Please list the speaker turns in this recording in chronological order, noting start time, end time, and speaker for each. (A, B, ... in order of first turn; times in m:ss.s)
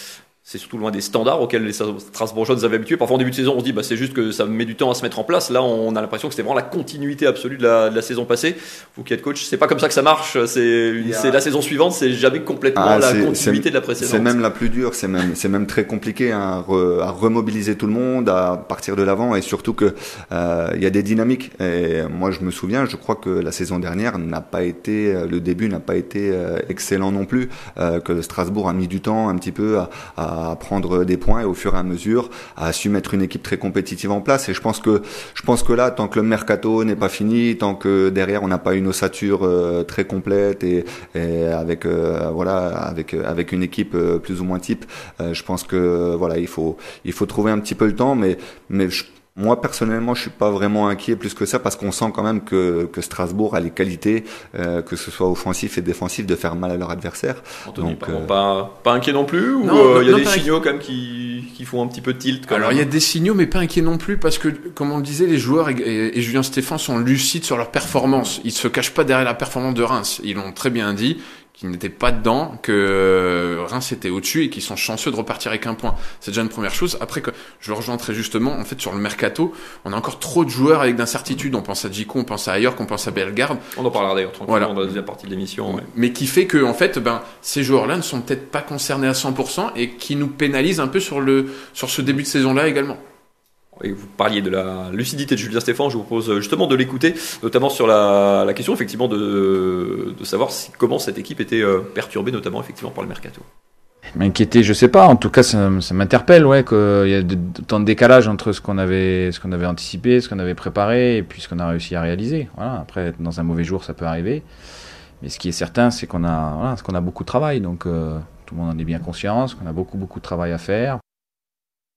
0:00.4-0:14.4 A
0:11.0-0:11.4 B
0:12.8-0:58.3 B
0:57.6-1:02.8 A
0:59.6-1:00.5 C
1:02.5-1:23.6 C
1:23.7-1:25.8 A
1:25.7-1:33.0 C
1:33.8-1:43.4 A
1:44.2-1:54.4 D
1:55.2-2:01.0 D